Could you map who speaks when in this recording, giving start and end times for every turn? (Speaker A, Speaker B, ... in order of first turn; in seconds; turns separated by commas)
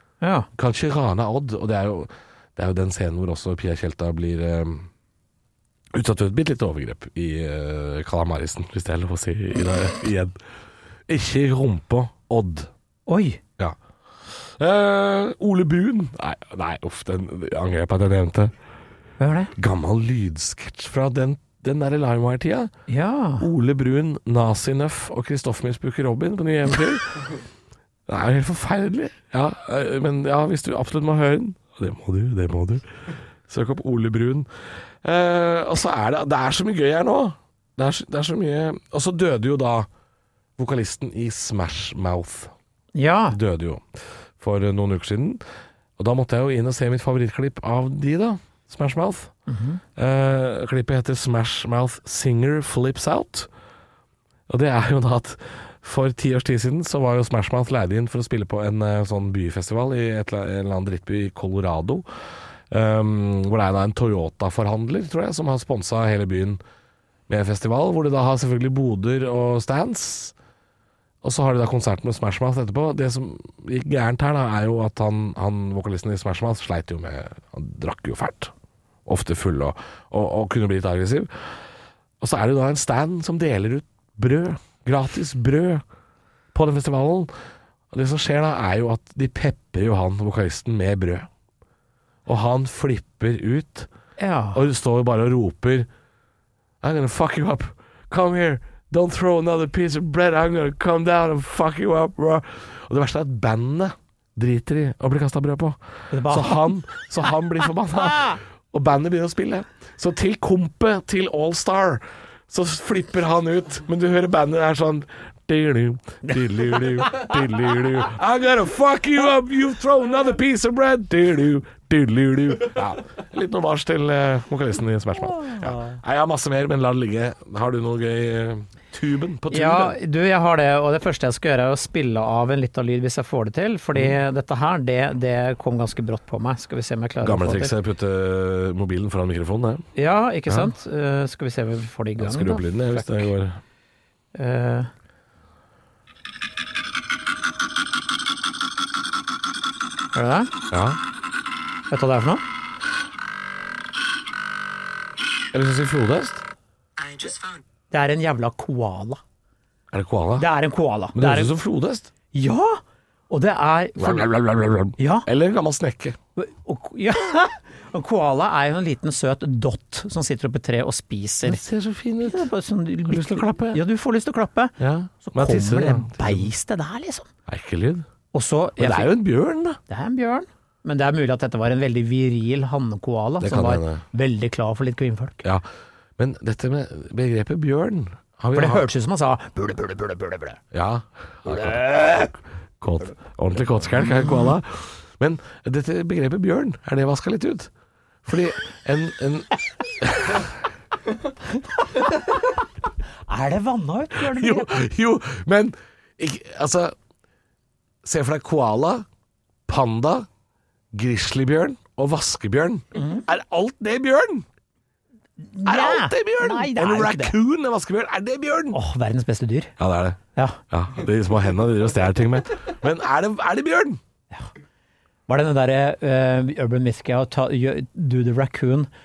Speaker A: 0.2-0.5, Speaker B: 0.6-4.9, Speaker B: 5.9-10.4, Speaker B: 11.1-12.7, Speaker A: 13.1-13.4, Speaker B: 14.3-18.5, Speaker A: 19.2-19.5, Speaker B: 19.6-22.7, Speaker A: 22.9-23.5, Speaker B: 23.4-27.4, Speaker B: 28.1-34.5, Speaker B: 35.0-39.9, Speaker B: 40.6-42.5, Speaker A: 43.0-43.4, Speaker B: 43.3-43.9, Speaker B: 44.4-45.4, Speaker B: 46.0-49.3, Speaker A: 49.5-49.8, Speaker B: 50.0-53.5, Speaker B: 54.5-62.0, Speaker B: 62.7-66.6, Speaker B: 67.3-70.3, Speaker B: 71.2-78.5, Speaker B: 79.1-81.5, Speaker B: 82.2-85.8, Speaker B: 86.5-87.3, Speaker B: 87.9-91.3, Speaker B: 92.3-93.9, Speaker A: 94.2-94.6, Speaker B: 94.5-95.9, Speaker B: 96.8-130.0, Speaker A: 106.1-106.7, Speaker A: 125.4-126.0, Speaker A: 129.5-137.7, Speaker B: 137.2-139.9, Speaker A: 140.0-143.3, Speaker B: 142.2-143.6, Speaker A: 144.3-144.9, Speaker A: 150.1-150.5, Speaker B: 150.7-151.0, Speaker A: 151.9-152.4, Speaker B: 155.5-156.4, Speaker A: 157.9-159.2, Speaker B: 159.9-160.5, Speaker A: 160.4-161.5, Speaker B: 161.2-162.1, Speaker A: 162.3-164.3, Speaker B: 164.0-166.2, Speaker A: 165.0-165.3, Speaker A: 166.4-171.6, Speaker B: 171.4-172.5, Speaker A: 172.2-177.3, Speaker B: 173.1-173.8, Speaker B: 174.8-176.5, Speaker B: 177.5-178.1, Speaker A: 178.3-179.1, Speaker B: 178.8-179.8, Speaker A: 179.9-185.4, Speaker B: 183.4-184.0, Speaker B: 186.2-188.9, Speaker A: 188.5-190.6, Speaker B: 190.7-191.9, Speaker A: 191.5-192.3, Speaker B: 192.8-197.7, Speaker A: 194.1-194.5, Speaker B: 198.2-200.6, Speaker A: 201.9-202.5, Speaker A: 203.3-204.8, Speaker B: 204.2-206.9, Speaker B: 208.0-209.1, Speaker B: 209.7-210.3, Speaker B: 210.9-214.5, Speaker A: 213.0-213.2, Speaker A: 215.4-217.3, Speaker B: 215.7-218.8, Speaker A: 218.7-219.7, Speaker B: 219.8-220.2, Speaker B: 220.7-224.0, Speaker A: 225.3-228.9